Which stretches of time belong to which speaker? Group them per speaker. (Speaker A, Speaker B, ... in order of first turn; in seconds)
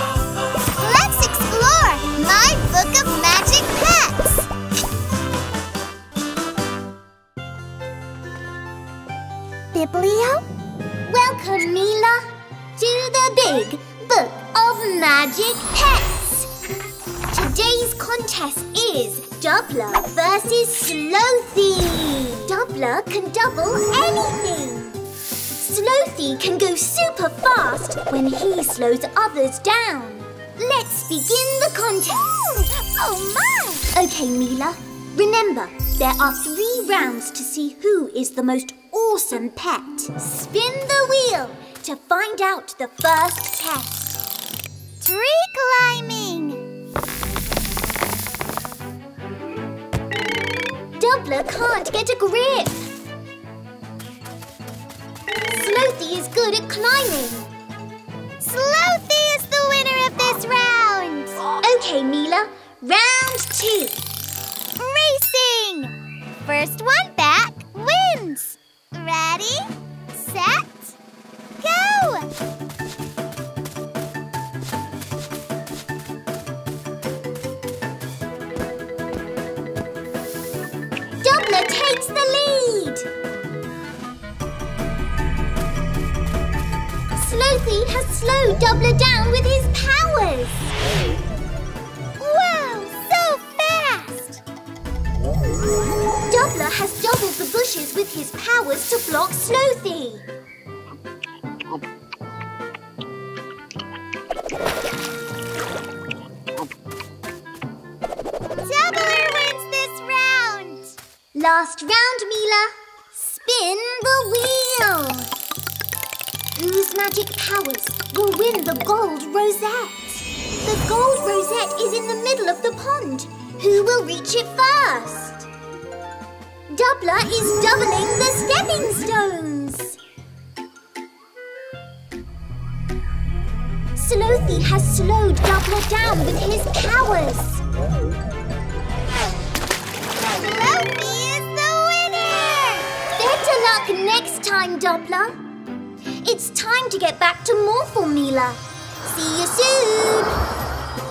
Speaker A: 0.8-4.5, 9.7-10.5, 32.5-33.9, 45.0-46.6, 58.4-61.5, 64.8-71.0, 71.6-72.3, 92.2-94.4, 108.6-111.0, 140.3-142.9
Speaker B: 11.1-16.5, 17.3-25.0, 25.6-32.5, 33.9-44.2, 51.0-52.9, 55.5-57.5, 61.5-64.0, 81.2-83.1, 87.1-90.7, 96.3-100.3, 111.3-115.3, 116.6-125.5, 126.7-130.0, 133.9-137.6, 143.2-145.4, 146.2-150.4